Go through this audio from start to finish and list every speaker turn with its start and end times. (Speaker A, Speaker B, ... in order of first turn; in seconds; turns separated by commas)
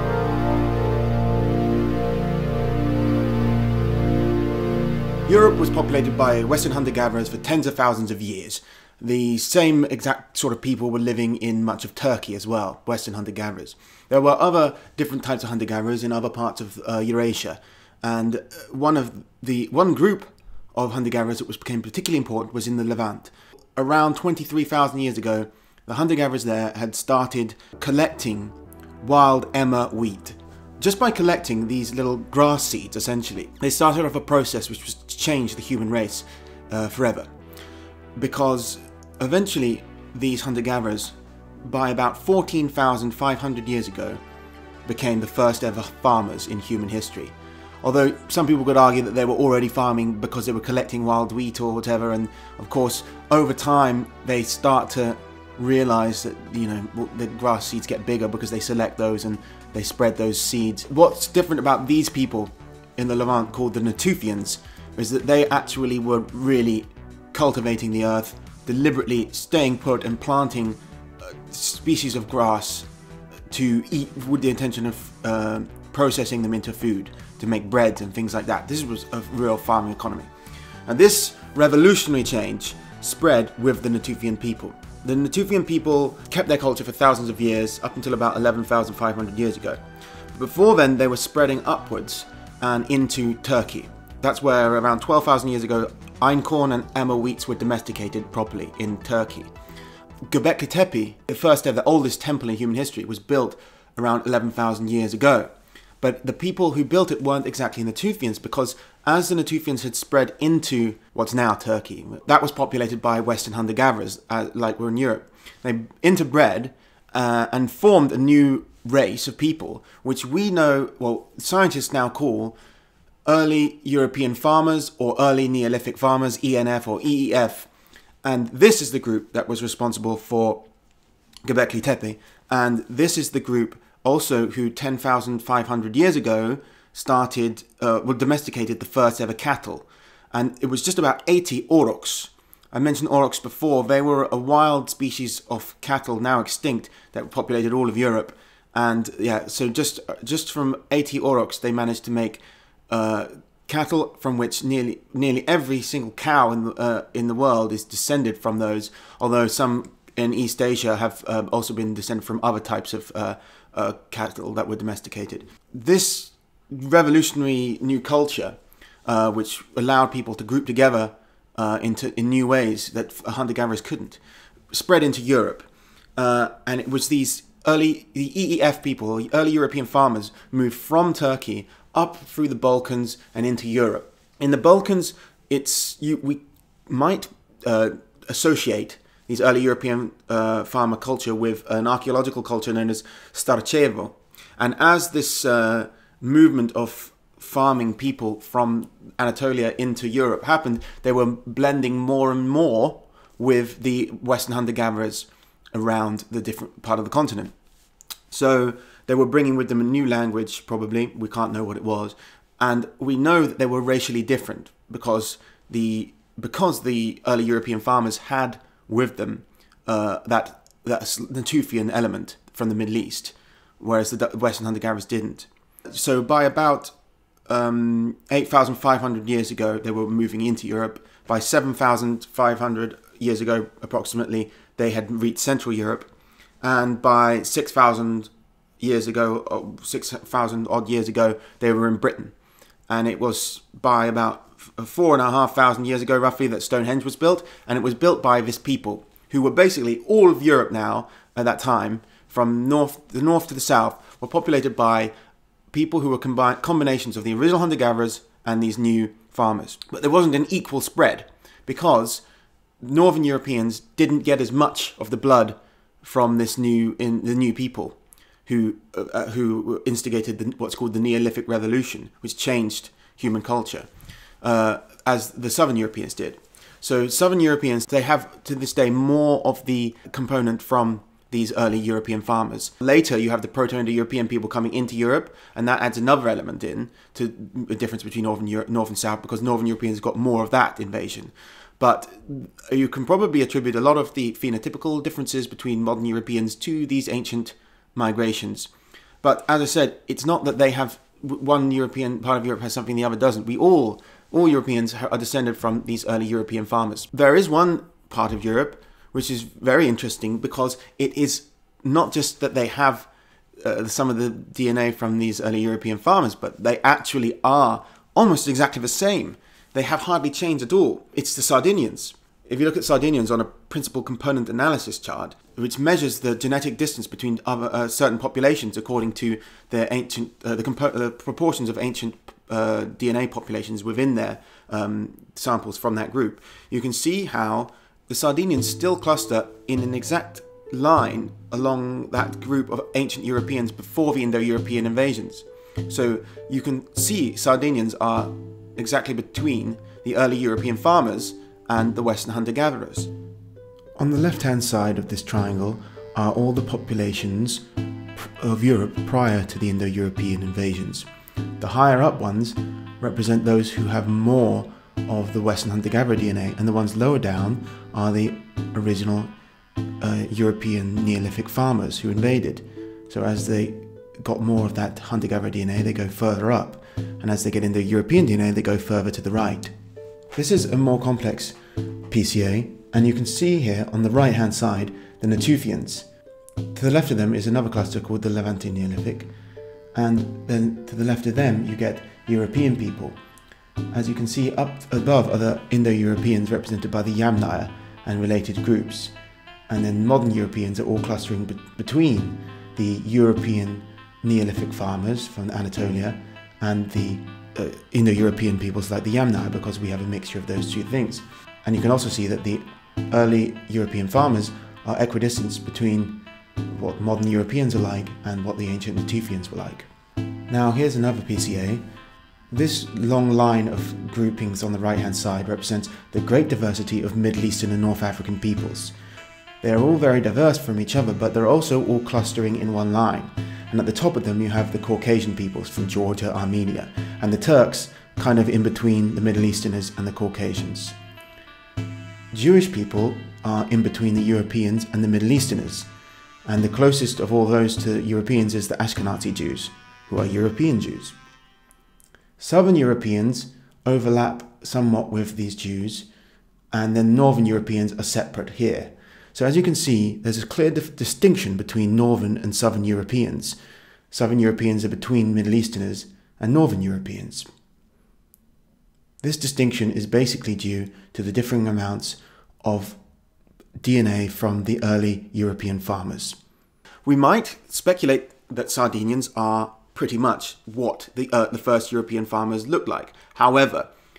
Speaker A: 5.3-37.3, Speaker A: 38.1-44.2, Speaker A: 44.8-72.9, Speaker A: 73.5-80.3, Speaker A: 80.9-89.8, Speaker A: 90.3-99.5, Speaker A: 100.3-122.6, Speaker A: 123.2-127.7, Speaker A: 128.2-130.6, Speaker A: 131.4-174.2, Speaker A: 174.7-207.5, Speaker A: 208.3-226.9, Speaker A: 227.5-236.1, Speaker A: 236.6-242.3, Speaker A: 242.9-255.1, Speaker A: 255.7-262.2, Speaker A: 262.8-273.9, Speaker A: 274.4-298.7, Speaker A: 299.2-313.1, Speaker A: 313.6-353.1, Speaker A: 354.0-357.6, Speaker A: 358.2-361.1, Speaker A: 361.6-369.3, Speaker A: 370.0-379.7, Speaker A: 380.3-381.6, Speaker A: 382.1-386.1, Speaker A: 386.7-389.3, Speaker A: 389.9-393.2, Speaker A: 393.9-399.1, Speaker A: 399.7-419.9, Speaker A: 420.5-421.8, Speaker A: 422.5-428.9, Speaker A: 429.6-440.9, Speaker A: 442.3-445.9, Speaker A: 446.4-451.1, Speaker A: 452.4-456.1, Speaker A: 456.7-463.6, Speaker A: 464.1-467.5, Speaker A: 469.2-473.0, Speaker A: 473.8-476.4, Speaker A: 477.0-483.9